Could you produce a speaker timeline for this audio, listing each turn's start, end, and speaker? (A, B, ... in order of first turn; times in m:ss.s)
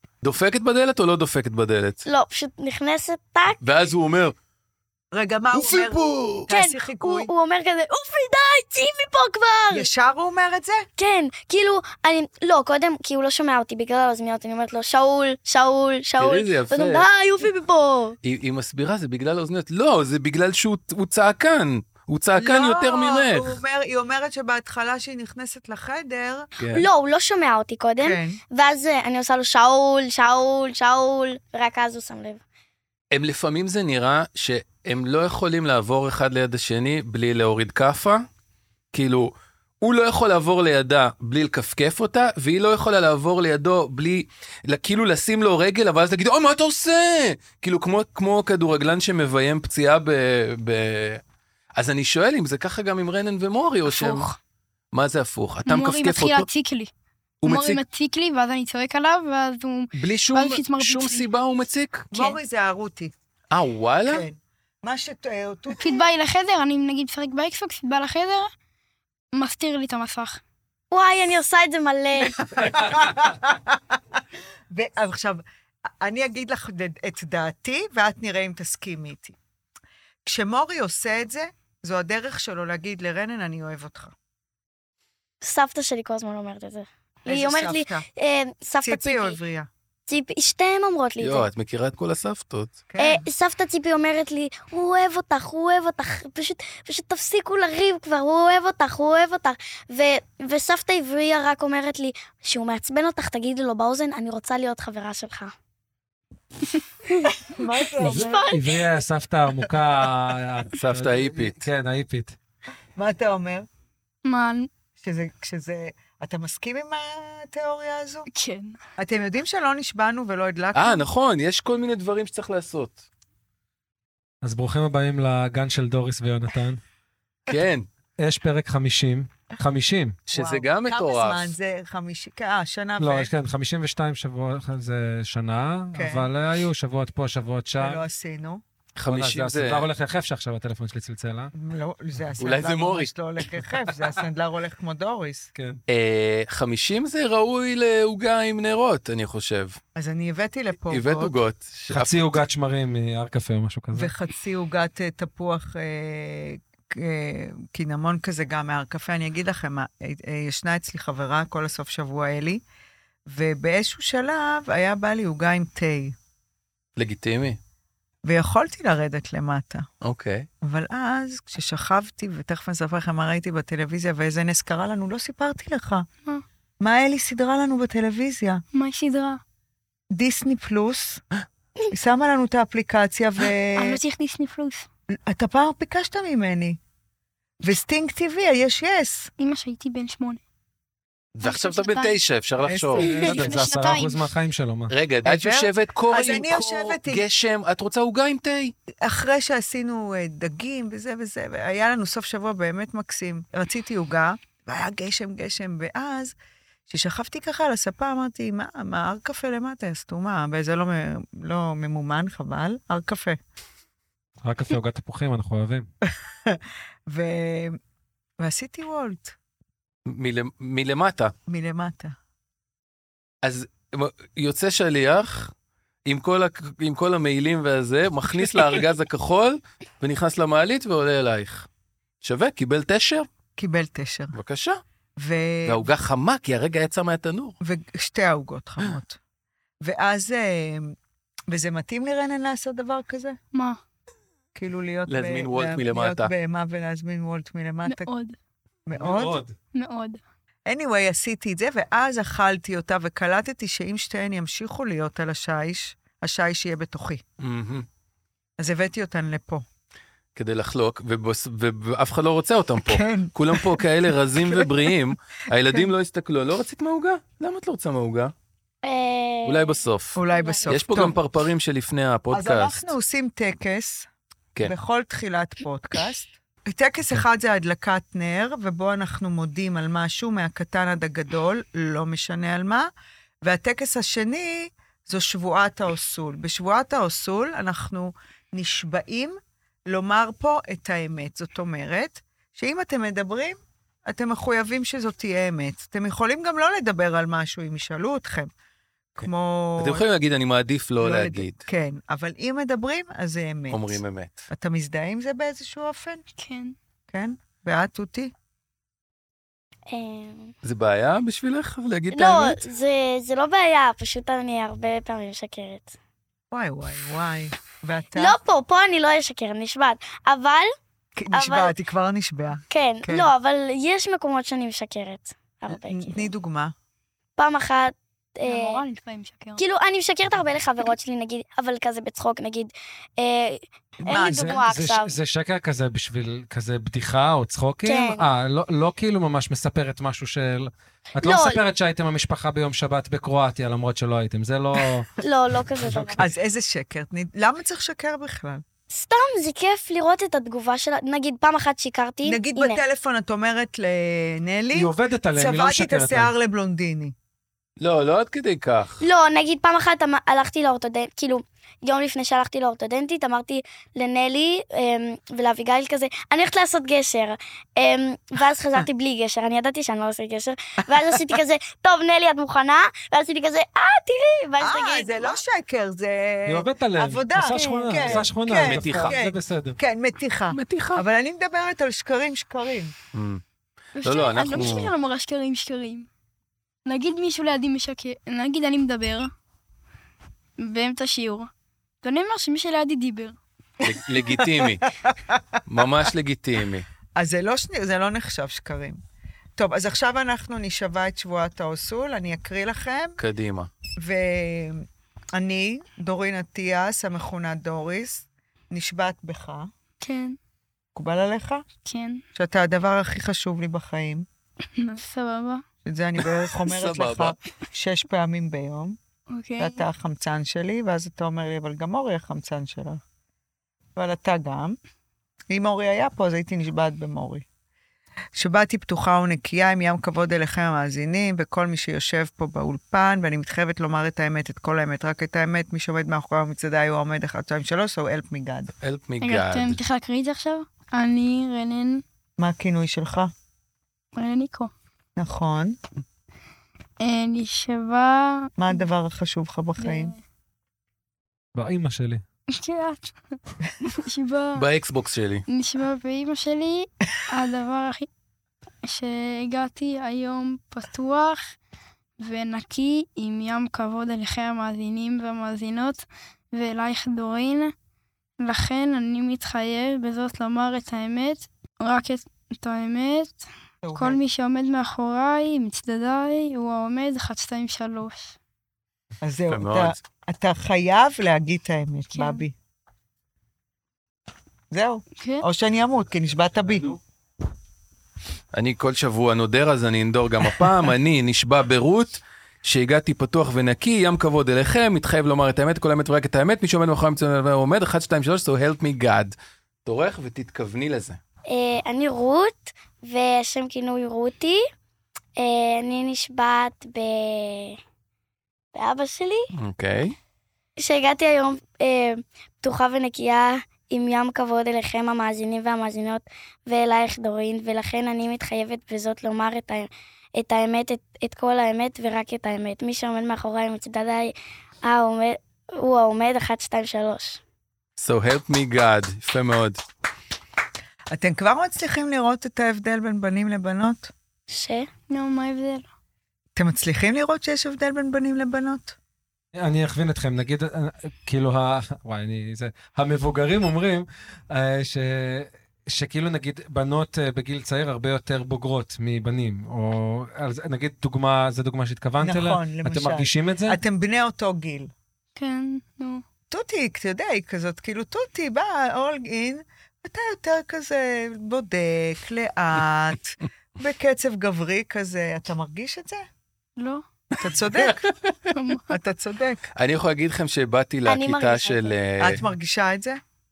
0:00.2-0:02.0 A
0:02.0-0:03.6 B
0:03.6-0:04.3 A
0:05.1-0:07.3 C
0:05.5-0:06.5 A
0:06.5-0:09.9 B
0:09.7-0:10.8 C
0:11.0-0:18.2 B
0:16.2-0:17.0 A
0:18.2-0:23.6 A
0:22.4-0:26.5 C
0:26.6-0:26.8 A
0:26.7-0:32.4 B
0:28.0-0:28.4 C
0:33.1-0:38.2 A
0:38.9-0:51.2 A
0:51.8-0:54.3 A
0:53.8-0:54.4 B
0:54.9-0:56.5 A
0:55.6-0:56.9 D
0:57.4-0:57.8 A
0:57.4-1:01.3 D
1:00.0-1:02.1 A
1:02.1-1:03.1 C
1:03.5-1:04.2 A
1:04.0-1:06.1 C
1:05.8-1:08.5 D
1:09.3-1:10.4 D
1:10.9-1:12.7 B
1:12.4-1:13.8 C
1:14.7-1:15.4 C
1:16.0-1:19.4 C
1:20.2-1:24.1 C
1:25.4-1:29.4 B
1:27.2-1:28.0 C
1:28.8-1:29.7 C
1:30.1-1:31.5 B
1:31.2-1:32.8 A
1:32.9-1:33.2 C
1:33.0-1:45.5 B
1:47.4-1:48.5 C
1:48.0-1:48.8 B
1:48.0-1:52.3 E
1:50.7-1:51.6 A
1:53.0-1:53.7 C
1:54.2-1:54.7 D
1:55.0-1:58.3 C
1:58.3-1:58.8 D
1:59.0-2:01.0 C
2:00.7-2:03.0 A
2:04.4-2:06.8 E
2:07.5-2:07.8 A
2:08.2-2:10.2 E
2:10.3-2:11.5 A
2:10.3-2:13.3 C
2:13.0-2:18.0 E
2:15.9-2:16.3 C
2:17.8-2:18.6 C
2:19.0-2:19.9 A
2:19.1-2:21.5 E
2:21.5-2:25.5 C
2:22.4-2:23.1 A
2:25.9-2:29.8 A
2:30.0-2:31.4 C
2:30.9-2:32.3 A
2:31.9-2:34.1 E
2:33.9-2:42.6 C
2:43.3-2:46.1 C
2:47.0-2:47.6 A
2:48.2-2:49.9 C
2:50.0-2:50.5 A
2:50.6-2:56.0 C
2:56.8-2:58.6 C
2:58.7-2:59.4 D
3:00.1-3:01.2 C
3:01.9-3:04.0 C
3:03.8-3:04.9 D
3:05.1-3:06.8 C
3:07.6-3:09.3 C
3:09.4-3:10.4 D
3:11.3-3:13.4 A
3:11.4-3:12.1 D
3:12.6-3:13.1 C
3:13.0-3:14.9 E
3:13.1-3:14.2 D
3:14.9-3:18.7 A
3:15.2-3:17.2 C
3:19.0-3:26.3 C
3:26.9-3:33.4 C
3:34.4-3:35.9 E
3:36.0-3:37.8 C
3:38.4-3:39.3 C
3:40.1-3:41.3 A
3:41.5-3:42.1 C
3:43.4-3:45.5 A
3:46.0-3:51.7 A
3:52.2-3:53.3 A
3:53.6-3:54.4 C
3:54.3-3:54.8 A
3:55.2-3:55.9 C
3:55.6-3:57.6 A
3:57.6-3:59.2 C
3:59.8-4:00.9 C
4:01.5-4:03.4 C
4:03.5-4:03.8 D
4:04.5-4:08.1 C
4:05.1-4:06.3 A
4:07.8-4:08.4 D
4:08.9-4:09.4 C
4:08.9-4:09.5 E
4:09.7-4:10.2 D
4:10.6-4:17.2 C
4:17.4-4:17.8 A
4:18.6-4:19.6 C
4:20.4-4:28.3 A
4:22.8-4:23.9 C
4:24.4-4:24.9 C
4:28.8-4:30.7 B
4:29.4-4:32.9 A
4:30.2-4:31.2 C
4:32.3-4:34.1 C
4:34.6-4:42.9 C
4:43.4-4:58.5 C
4:59.2-5:00.0 C
4:59.8-5:01.6 A
5:01.0-5:06.2 C
5:03.7-5:04.4 A
5:06.4-5:06.7 D
5:07.1-5:08.3 C
5:09.9-5:10.5 B
5:10.6-5:12.6 A
5:12.1-5:15.9 B
5:16.5-5:18.4 C
5:18.2-5:20.7 B
5:21.2-5:23.3 C
5:21.3-5:21.7 B
5:22.7-5:26.3 B
5:25.7-5:26.7 C
5:27.4-5:28.8 B
5:28.4-5:29.6 D
5:29.6-5:35.1 B
5:34.0-5:34.6 C
5:34.0-5:45.1 E
5:37.8-5:38.2 B
5:41.2-5:41.6 B
5:45.2-5:46.2 B
5:45.8-5:46.2 E
5:46.2-5:48.6 C
5:48.9-5:52.8 B
5:52.2-5:57.1 C
5:54.7-5:56.3 E
5:57.8-5:59.0 A
5:59.0-6:15.4 B
6:14.6-6:22.9 C
6:16.5-6:19.8 E
6:17.4-6:18.0 B
6:18.5-6:19.1 A
6:20.5-6:21.0 A
6:23.1-6:23.4 A
6:24.0-6:26.1 D
6:24.0-6:24.9 A
6:26.8-6:29.3 D
6:30.6-6:31.5 D
6:32.0-6:33.4 D
6:33.8-6:34.8 A
6:33.9-6:35.6 C
6:35.7-6:36.8 A
6:37.2-6:39.0 C
6:39.6-6:43.2 C
6:43.2-6:43.7 A
6:44.0-6:49.7 C
6:50.0-6:50.4 D
6:50.9-6:51.6 C
6:51.8-6:52.2 D
6:52.4-6:54.2 C
6:54.8-6:55.6 D
6:55.8-6:59.0 C
6:56.5-6:57.4 A
6:59.3-6:59.8 D
6:59.6-7:03.0 C
7:04.0-7:04.8 C
7:05.5-7:07.4 C
7:08.4-7:18.7 C
7:18.8-7:19.8 A
7:19.2-7:22.0 D
7:22.4-7:23.3 C
7:24.1-7:24.7 D
7:25.2-7:25.8 C
7:27.0-7:28.5 D
7:28.6-7:30.1 C
7:29.8-7:30.2 D
7:31.5-7:32.2 E
7:32.5-7:34.6 D
7:34.5-7:35.4 A
7:35.5-7:38.1 D
7:38.8-7:41.5 D
7:42.2-7:47.7 D
7:48.4-7:53.4 D
7:53.8-7:54.2 C
7:54.0-7:58.3 D
7:59.2-8:02.5 C
7:59.5-8:00.0 A
8:02.1-8:02.4 D
8:04.7-8:07.0 C
8:05.2-8:05.4 D
8:08.5-8:19.3 A
8:19.8-8:21.2 A
8:21.5-8:24.6 B
8:25.4-8:27.8 B
8:28.7-8:29.5 B
8:29.5-8:30.2 A
8:30.8-8:47.4 B
8:48.0-8:49.8 A
8:51.1-8:54.1 C
8:54.5-8:54.9 B
8:55.1-8:55.8 D
8:56.6-8:59.0 C
8:59.5-9:13.8 E
9:12.2-9:14.9 C
9:15.4-9:16.2 D
9:16.5-9:26.2 C
9:26.8-9:27.0 D
9:27.4-9:28.1 C
9:27.8-9:28.3 A
9:28.5-9:28.9 D
9:28.9-9:29.7 C
9:29.8-9:32.4 A
9:31.0-9:32.0 B
9:32.2-9:33.2 C